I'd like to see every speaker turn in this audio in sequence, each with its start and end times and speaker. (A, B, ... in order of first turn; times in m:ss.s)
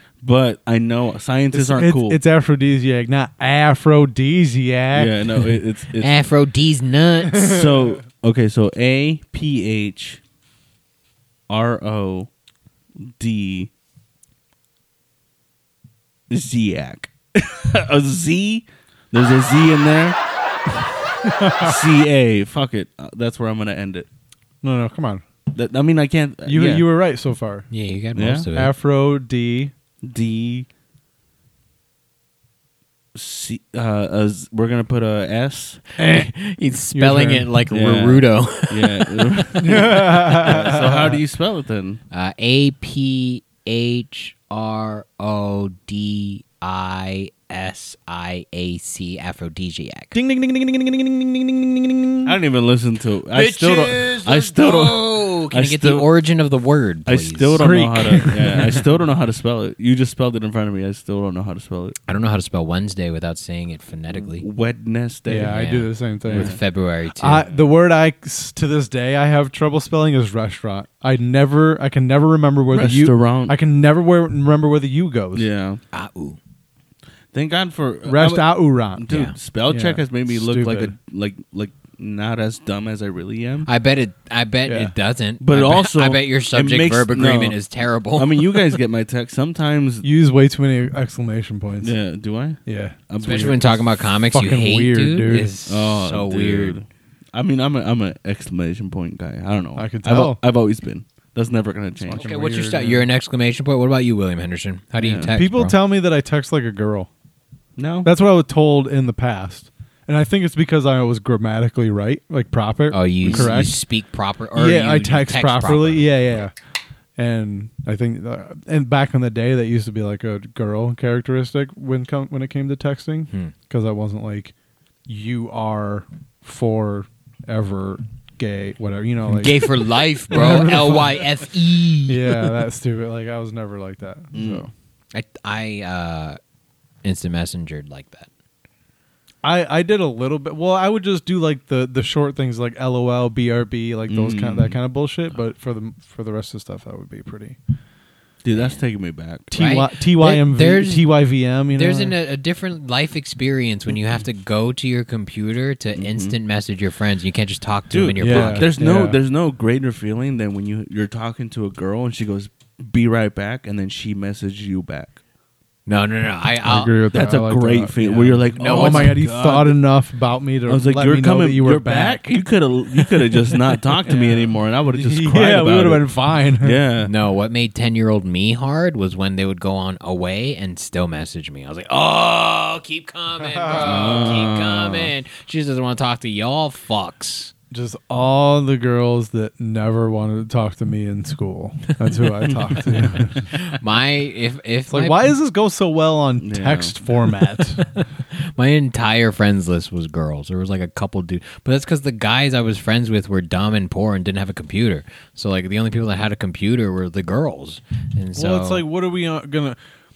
0:00.2-0:02.2 A
0:01.5-0:05.2 B
0:04.9-0:06.1 A
0:06.0-0:07.6 C
0:07.4-0:07.6 B
0:07.4-0:10.2 A
0:11.5-0:12.3 A
0:13.0-0:13.7 A
0:16.3-0:20.2 A
0:21.2-0:21.9 B
0:21.6-0:24.1 A
0:24.6-0:25.2 B
0:25.5-0:26.9 A
0:26.4-0:27.7 B
0:27.7-0:28.7 C
0:28.2-0:28.5 A
0:28.5-0:29.7 B
0:30.0-0:30.7 A
0:33.2-0:36.0 A
0:36.0-0:39.4 C
0:37.0-0:37.5 B
0:37.7-0:42.0 A
0:39.6-0:41.2 B
0:42.1-0:50.2 C
0:50.1-0:52.4 B
0:52.2-0:56.1 A
0:53.3-0:58.3 C
0:57.1-1:02.0 A
0:57.5-0:58.8 B
1:02.1-1:04.4 C
1:04.1-1:05.6 A
1:05.3-1:06.6 B
1:05.4-1:07.5 C
1:06.3-1:06.6 A
1:07.2-1:15.5 B
1:12.7-1:13.6 A
1:15.4-1:15.8 A
1:15.9-1:16.4 C
1:17.3-1:23.7 A
1:18.0-1:19.0 B
1:19.1-1:19.4 C
1:19.7-1:20.9 B
1:23.7-1:28.7 C
1:24.6-1:24.9 B
1:25.4-1:27.6 A
1:28.2-1:30.1 A
1:30.0-1:32.0 B
1:31.8-1:33.8 A
1:32.7-1:33.7 B
1:33.2-1:36.8 C
1:34.2-1:35.5 B
1:35.7-1:42.3 A
1:39.8-1:40.4 B
1:42.0-1:43.1 B
1:42.1-1:45.8 C
1:45.0-1:45.3 A
1:45.4-1:47.1 B
1:47.8-1:48.1 A
1:48.0-1:53.8 B
1:52.9-1:56.1 C
1:53.2-1:53.7 A
1:54.5-1:56.5 B
1:57.2-2:04.5 B
2:05.1-2:11.5 B
2:09.4-2:12.4 C
2:12.1-2:14.7 B
2:14.3-2:14.7 A
2:15.1-2:16.4 C
2:17.0-2:18.3 C
2:19.4-2:27.6 B
2:24.1-2:24.8 A
2:28.4-2:29.5 A
2:28.5-2:28.8 C
2:29.5-2:32.2 B
2:29.5-2:31.1 C
2:31.8-2:38.7 C
2:36.0-2:36.4 A
2:37.9-2:45.2 A
2:38.2-2:39.2 B
2:45.9-2:47.0 C
2:46.6-2:52.3 B
2:47.1-2:49.8 A
2:48.6-2:49.2 C
2:50.7-2:57.1 A
2:52.9-2:56.8 B
2:57.0-3:07.5 C
3:03.5-3:04.4 B
3:03.8-3:05.1 A
3:07.7-3:13.5 B
3:12.5-3:13.2 A
3:13.5-3:15.2 C
3:14.9-3:17.8 B
3:16.4-3:17.0 A
3:17.9-3:28.8 C
3:28.3-3:29.8 B